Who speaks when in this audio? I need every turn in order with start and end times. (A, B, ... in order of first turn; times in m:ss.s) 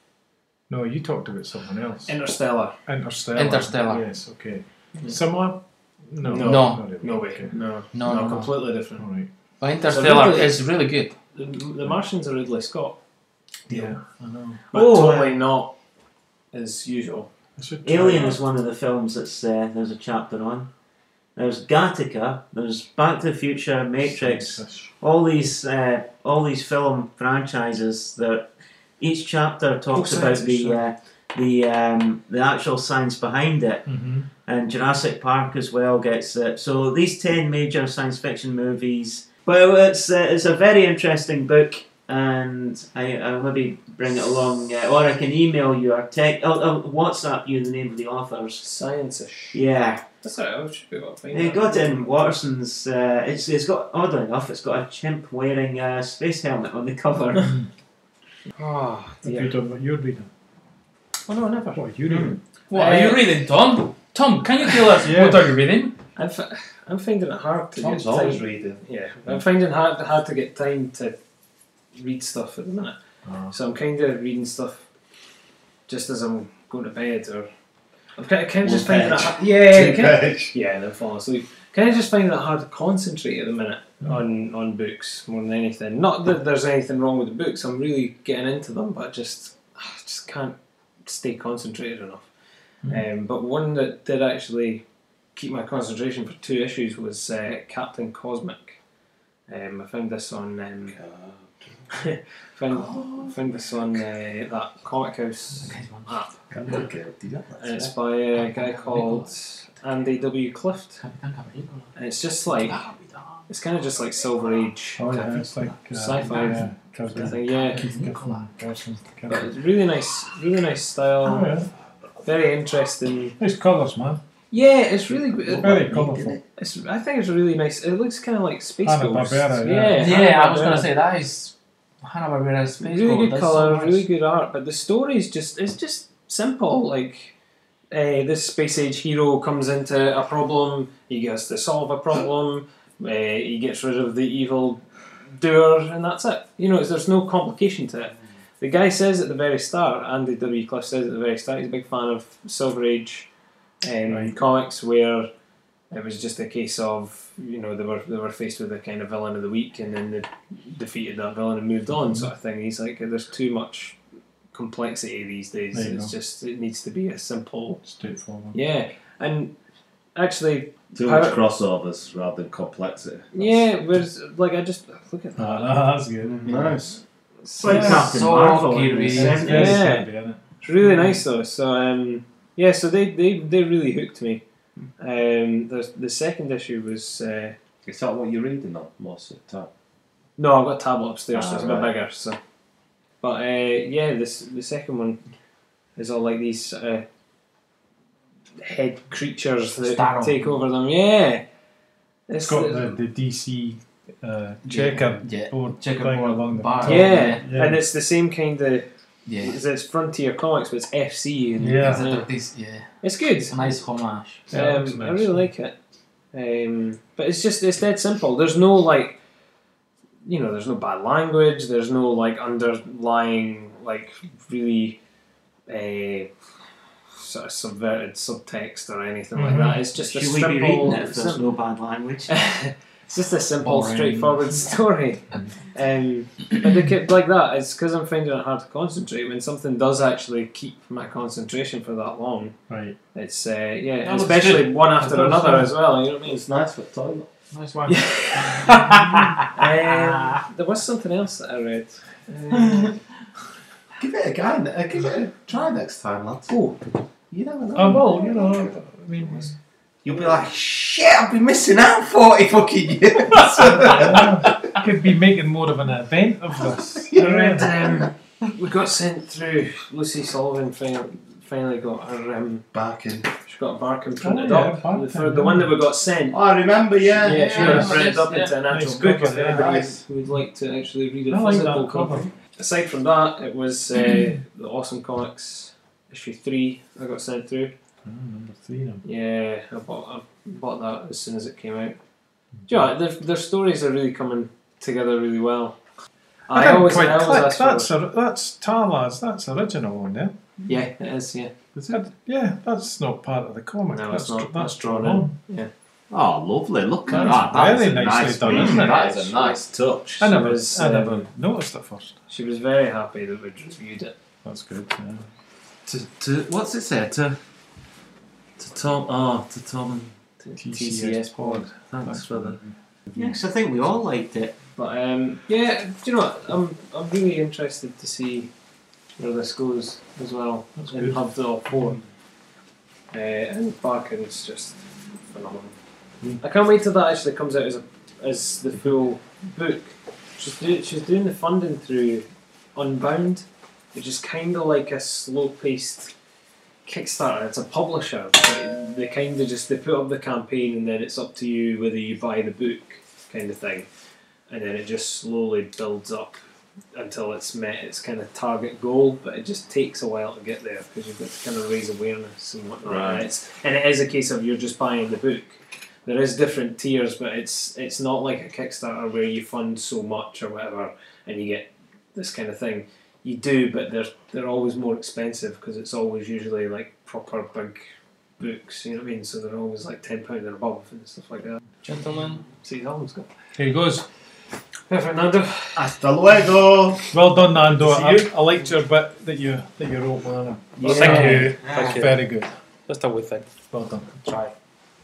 0:00.7-0:02.1 A
0:02.0-0:02.7 B
0:02.9-0:07.5 A
0:03.3-0:04.0 C
0:06.2-0:09.0 B
0:06.4-0:06.8 C
0:07.9-0:08.5 C
0:09.0-0:09.3 A
0:09.6-0:11.1 C
0:09.9-0:10.6 B
0:11.3-0:13.0 B
0:13.7-0:14.0 B
0:13.7-0:14.6 A
0:14.7-0:15.3 D
0:14.7-0:15.7 B
0:16.5-0:17.3 B
0:17.6-0:18.4 A
0:17.8-0:20.7 D
0:21.4-0:28.5 D
0:24.0-0:24.9 A
0:29.0-0:33.9 D
0:29.9-0:30.8 B
0:33.8-0:34.3 A
0:34.4-0:48.6 D
0:48.6-0:49.6 B
0:49.5-0:50.0 D
0:50.2-0:52.2 B
0:51.3-0:57.6 D
0:58.6-0:59.5 B
0:59.2-1:00.3 A
1:01.3-1:03.3 B
1:01.7-1:02.4 A
1:02.7-1:06.0 C
1:05.0-1:05.5 A
1:06.2-1:11.1 B
1:07.8-1:08.8 E
1:11.9-1:13.0 B
1:13.2-1:13.5 A
1:13.5-1:14.8 B
1:15.9-1:17.5 B
1:18.2-1:32.3 B
1:18.6-1:20.5 E
1:32.8-1:34.8 B
1:35.3-1:38.8 B
1:39.5-1:41.0 B
1:40.9-1:41.9 E
1:41.9-1:46.8 B
1:42.7-1:43.4 E
1:45.6-1:46.8 C
1:46.5-1:47.9 E
1:47.6-1:51.0 B
1:48.3-1:49.3 C
1:51.0-1:51.9 C
1:51.9-1:52.8 B
1:52.4-1:53.4 C
1:53.5-1:57.8 B
1:55.0-1:59.5 A
1:55.5-1:56.6 C
1:57.5-1:58.4 C
1:59.3-2:01.5 B
2:01.2-2:01.7 A
2:02.2-2:03.4 B
2:03.4-2:04.2 A
2:04.5-2:10.9 B
2:05.5-2:06.4 A
2:05.6-2:05.9 E
2:08.8-2:10.1 A
2:10.0-2:14.0 C
2:12.8-2:17.3 B
2:17.9-2:33.3 B
2:33.8-2:35.3 B
2:34.1-2:34.3 A
2:35.9-2:44.0 B
2:44.5-2:47.8 B
2:45.7-2:46.1 A
2:47.8-2:48.6 A
2:48.5-2:49.5 B
2:50.2-2:51.4 B
2:50.9-2:53.6 E
2:53.3-2:56.0 B
2:55.4-2:56.8 A
2:56.4-2:57.0 E
2:57.4-2:58.1 B
2:57.5-2:59.8 D
2:57.6-2:58.1 A
2:57.7-2:59.7 C
2:59.1-3:00.4 A
2:59.3-3:00.1 B
3:00.6-3:04.4 B
3:05.0-3:07.6 B
3:07.8-3:09.7 E
3:10.4-3:12.4 B
3:11.3-3:12.0 E
3:13.2-3:15.2 B
3:16.0-3:17.0 B
3:18.6-3:21.4 B
3:19.8-3:20.6 C
3:22.3-3:22.9 B
3:22.4-3:27.8 A
3:24.6-3:27.5 C
3:26.8-3:32.3 B
3:29.3-3:29.6 C
3:31.6-3:32.1 A
3:31.6-3:32.9 C
3:33.0-3:33.6 B
3:33.4-3:34.4 C
3:34.5-3:35.5 A
3:34.5-3:35.7 B
3:36.3-3:39.2 B
3:40.2-3:45.0 B
3:45.7-3:46.3 B
3:47.2-3:51.4 B
3:49.3-3:49.8 A
3:49.9-3:52.4 D
3:52.3-4:02.6 B
3:53.6-3:54.5 C
4:02.7-4:03.0 A
4:03.1-4:06.4 B
4:04.0-4:04.8 C
4:05.0-4:05.7 A
4:06.2-4:07.3 E
4:07.5-4:10.4 C
4:07.9-4:13.0 B
4:14.0-4:16.7 E
4:17.3-4:18.7 E
4:17.7-4:19.5 A
4:20.0-4:24.5 E
4:23.8-4:27.7 A
4:27.0-4:28.1 E
4:27.1-4:32.7 B
4:32.7-4:33.3 E
4:33.4-4:36.4 B
4:34.2-4:35.7 A
4:36.3-4:38.0 E
4:37.2-4:47.7 B
4:37.5-4:38.6 C
4:37.6-4:39.6 A
4:39.5-4:40.0 E
4:41.3-4:42.3 A
4:48.0-4:49.0 A
4:49.0-4:52.0 B
4:52.7-4:55.8 B
4:56.5-4:57.9 B
4:56.5-5:00.4 A
5:00.7-5:02.0 B
5:01.8-5:05.3 A
5:03.9-5:05.7 B
5:06.1-5:10.4 E
5:07.1-5:09.1 A
5:08.5-5:09.5 B
5:10.2-5:12.1 A
5:10.2-5:11.2 B
5:12.3-5:14.1 B
5:14.4-5:15.2 A
5:15.8-5:17.4 E
5:18.6-5:20.1 E
5:20.4-5:21.7 B
5:20.6-5:22.7 A
5:21.9-5:22.6 E
5:23.1-5:24.6 D
5:24.8-5:28.5 B
5:29.2-5:32.0 B
5:30.8-5:31.2 A
5:33.1-5:34.8 B
5:35.3-5:35.7 B
5:36.4-5:42.2 B
5:42.8-5:46.1 B
5:46.8-5:53.9 B
5:54.5-5:56.4 B
5:56.9-6:17.8 B
6:02.8-6:03.2 E
6:18.4-6:21.6 B
6:21.8-6:22.4 C
6:22.5-6:23.3 B
6:23.6-6:24.0 A
6:24.9-6:25.8 B
6:25.8-6:27.1 E
6:27.1-6:32.5 A
6:30.8-6:31.6 B
6:30.8-6:32.1 C
6:31.6-6:32.1 D
6:32.9-6:33.5 C
6:33.7-6:34.1 A
6:34.1-6:34.5 C